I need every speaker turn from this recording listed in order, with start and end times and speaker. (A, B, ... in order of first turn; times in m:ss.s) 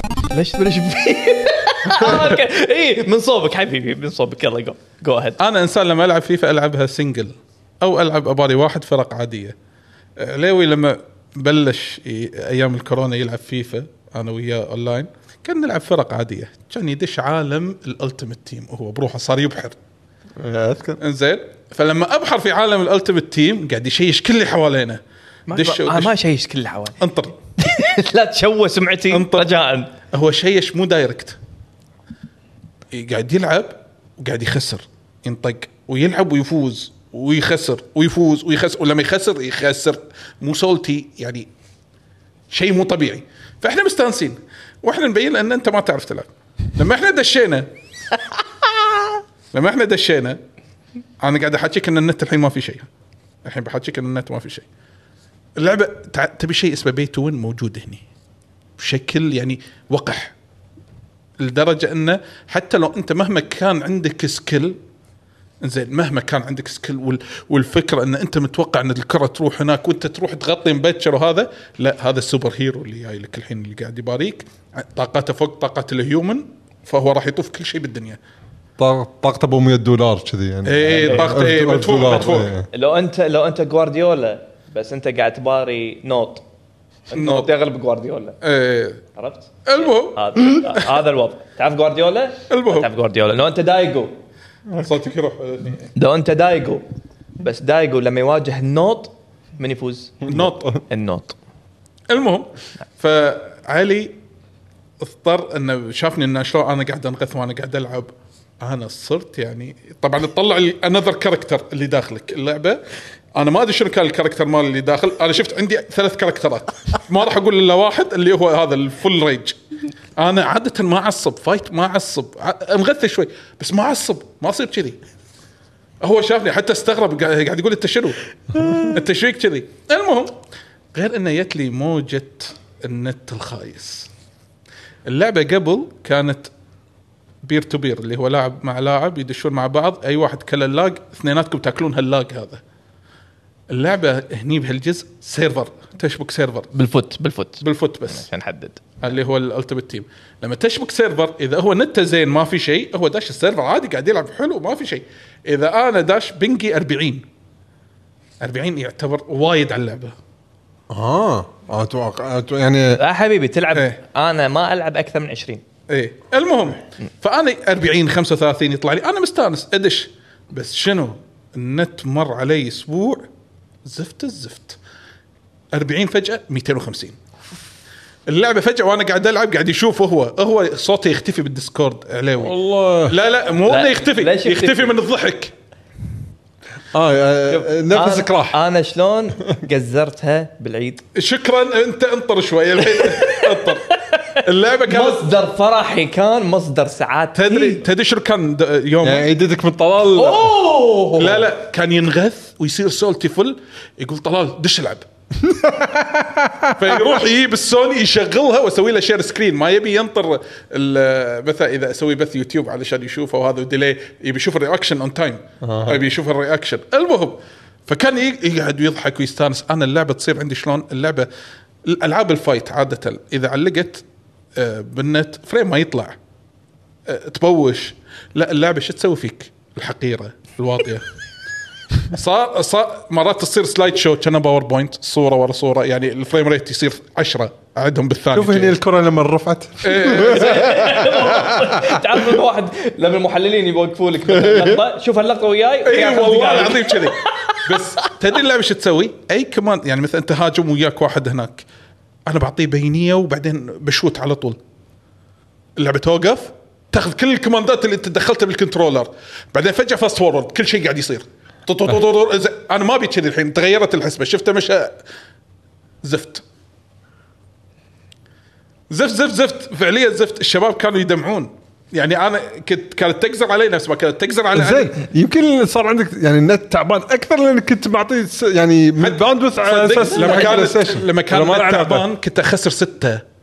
0:00.3-0:05.4 A
0:01.9-0:02.4 B
0:05.4-0:09.5 B
0:10.2-0:19.8 B
0:20.4-0:21.0 C
0:21.0-0:26.1 B
0:25.5-0:27.0 A
0:27.0-0:27.3 B
0:27.6-0:29.9 A
0:29.1-0:29.5 B
0:30.1-0:31.4 B
0:32.9-0:41.5 B
0:42.5-0:47.7 B
0:49.5-0:50.4 B
0:51.2-0:52.9 B
0:53.4-0:54.6 B
0:55.6-0:58.0 B
0:58.8-1:00.3 B
1:01.4-1:04.8 B
1:05.6-1:18.2 B
1:18.8-1:22.6 C
1:20.6-1:22.5 B
1:21.0-1:21.4 A
1:22.7-1:26.4 A
1:27.1-1:28.4 A
1:27.1-1:27.5 B
1:28.4-1:29.0 B
1:29.1-1:34.1 A
1:29.7-1:30.9 B
1:32.5-1:32.9 B
1:34.8-1:35.9 B
1:35.9-1:36.8 A
1:37.4-1:41.4 A
1:42.1-1:44.2 B
1:45.0-1:48.1 B
1:48.6-1:52.8 B
1:53.3-1:59.6 B
2:00.2-2:05.0 B
2:06.0-2:08.2 B
2:08.7-2:10.4 B
2:10.9-2:14.1 B
2:15.0-2:16.5 B
2:17.4-2:22.6 B
2:23.7-2:26.7 B
2:26.7-2:28.8 A
2:27.6-2:28.2 B
2:29.0-2:37.2 B
2:38.4-2:40.1 B
2:40.9-2:43.0 C
2:43.0-2:45.6 A
2:45.9-2:53.2 B
2:53.8-2:54.8 B
2:55.7-2:57.2 B
2:58.2-3:05.5 B
3:02.4-3:03.2 C
3:03.6-3:04.9 A
3:06.9-3:08.6 C
3:07.5-3:11.0 A
3:11.1-3:13.8 B
3:12.9-3:17.8 A
3:14.4-3:15.3 B
3:17.3-3:19.2 B
3:19.0-3:20.6 C
3:20.2-3:21.4 A
3:21.2-3:25.0 B
3:25.4-3:27.2 C
3:26.8-3:41.3 B
3:35.6-3:36.0 C
3:41.8-3:44.0 B
3:44.6-3:46.1 B
3:47.1-3:51.0 B
3:52.0-3:58.7 B
3:58.3-4:02.0 C
3:59.8-4:01.0 B
4:00.1-4:07.8 A
4:04.3-4:04.8 C
4:05.8-4:11.6 B
4:12.3-4:14.6 B
4:15.8-4:25.0 B
4:26.0-4:26.4 B
4:28.9-4:35.0 B
4:34.5-4:42.1 C
4:39.0-4:43.2 B
4:40.0-4:40.7 A